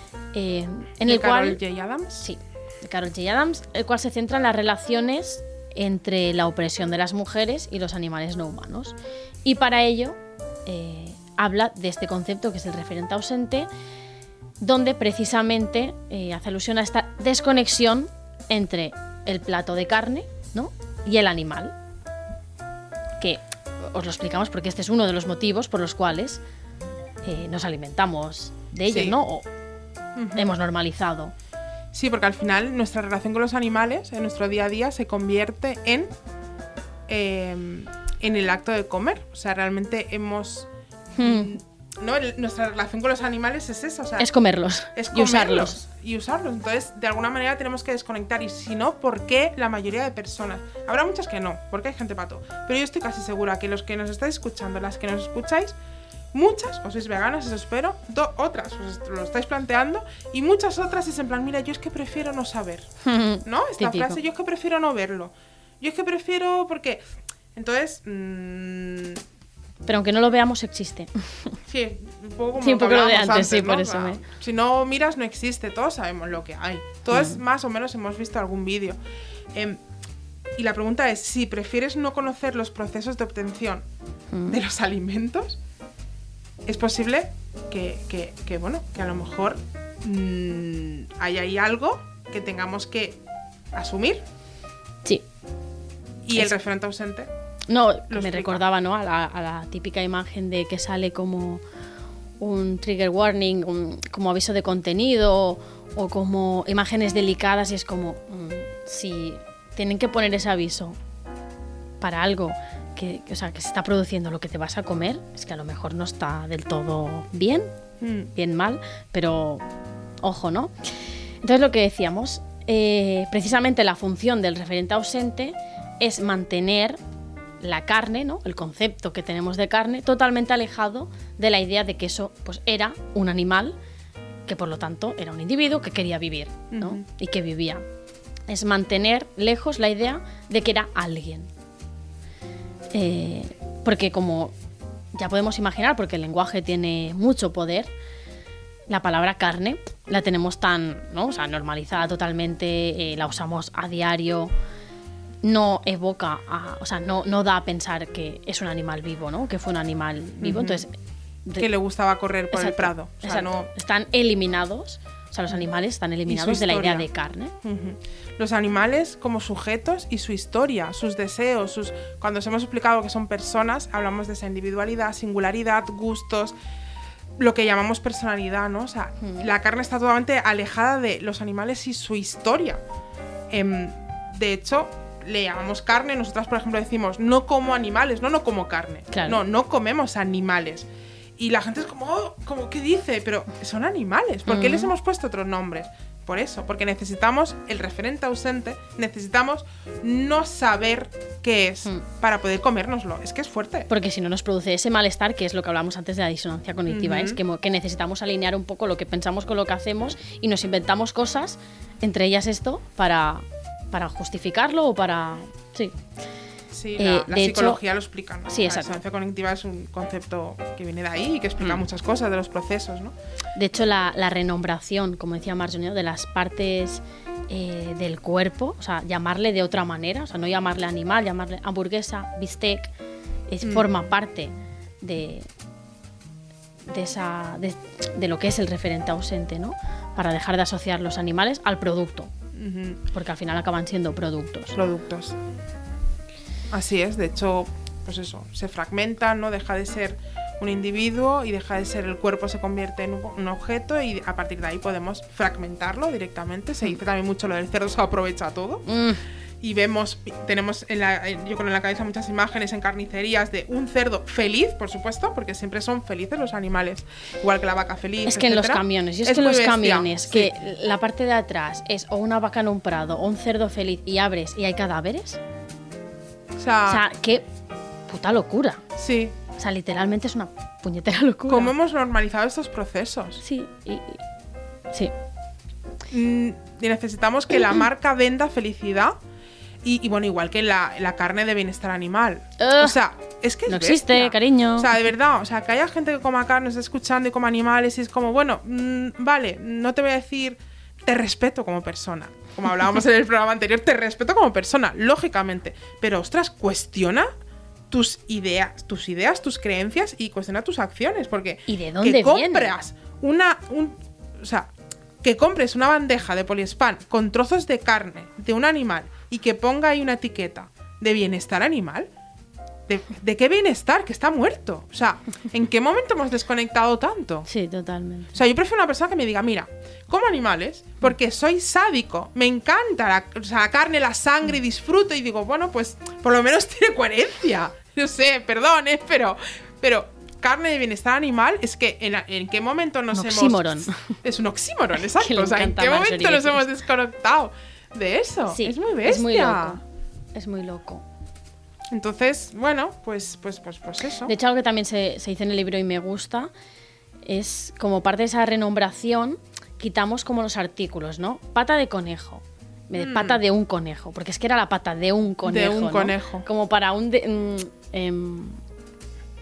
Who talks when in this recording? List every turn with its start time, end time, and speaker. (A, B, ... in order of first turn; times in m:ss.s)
0:00.3-0:01.6 A
0:01.0-0:02.3 B
0:02.2-0:13.7 A
0:14.6-0:21.7 A
0:23.2-0:26.4 A
0:27.2-0:29.5 A
0:28.8-0:29.2 B
0:30.2-0:30.5 B
0:30.4-0:31.3 A
0:31.9-0:36.1 B
0:37.1-0:44.3 B
0:41.2-0:41.6 A
0:44.2-0:45.8 A
0:44.9-0:55.8 B
0:56.3-1:02.9 B
1:03.0-1:04.2 A
1:03.4-1:07.0 B
1:07.5-1:09.2 B
1:09.8-1:11.6 A
1:11.7-1:19.0 B
1:12.6-1:14.2 A
1:17.1-1:17.4 A
1:19.5-1:19.8 B
1:20.6-1:23.8 B
1:24.3-1:24.6 A
1:24.5-1:25.6 B
1:26.6-1:33.2 B
1:33.7-1:34.2 B
1:36.2-1:37.3 B
1:37.7-1:41.6 A
1:38.1-1:38.6 B
1:42.4-1:51.0 A
1:52.0-1:57.7 A
1:58.0-1:58.3 B
1:58.3-1:59.6 A
2:00.2-2:00.7 A
2:01.4-2:07.0 A
2:07.6-2:13.8 A
2:14.5-2:17.8 A
2:16.7-2:17.0 B
2:18.5-2:21.5 A
2:22.9-2:24.5 A
2:25.1-2:27.9 A
2:28.9-2:34.5 A
2:35.4-2:40.9 A
2:40.4-2:40.8 B
2:41.6-2:43.7 B
2:42.5-2:47.5 A
2:46.3-2:47.1 B
2:47.6-2:56.5 B
2:57.4-3:02.8 B
3:03.5-3:10.9 B
3:09.1-3:09.4 A
3:11.4-3:23.9 B
3:14.5-3:14.9 A
3:23.9-3:36.0 A
3:26.9-3:27.4 B
3:36.7-3:43.1 B
3:37.0-3:37.8 A
3:38.5-3:38.9 A
3:43.6-3:52.9 A
3:53.5-3:55.5 A
3:53.6-3:53.9 B
3:56.9-4:02.3 A
4:02.5-4:03.0 B
4:03.1-4:04.8 A
4:04.7-4:05.4 B
4:06.7-4:18.9 B
4:18.9-4:19.2 A
4:19.6-4:30.5 B
4:28.2-4:35.4 A
4:36.6-4:37.0 B
4:36.9-4:37.4 A
4:38.1-4:38.8 A
4:39.0-4:39.4 B
4:39.6-4:41.7 A
4:41.5-4:43.4 B
4:43.4-4:44.2 A
4:46.1-4:49.2 B
4:49.8-5:07.3 B
4:52.6-4:53.0 A
4:53.7-4:54.9 A
5:07.9-5:14.7 B
5:11.7-5:12.7 A
5:15.2-5:22.1 B
5:22.9-5:27.5 B
5:27.5-5:28.3 A
5:28.3-5:49.8 B
5:43.1-5:44.2 A
5:45.2-5:46.6 A
5:48.5-5:49.8 A
5:50.3-5:51.0 A
5:51.9-5:54.3 B
5:54.2-5:56.5 A
5:57.2-6:08.6 A
6:02.9-6:03.4 B
6:05.4-6:06.4 B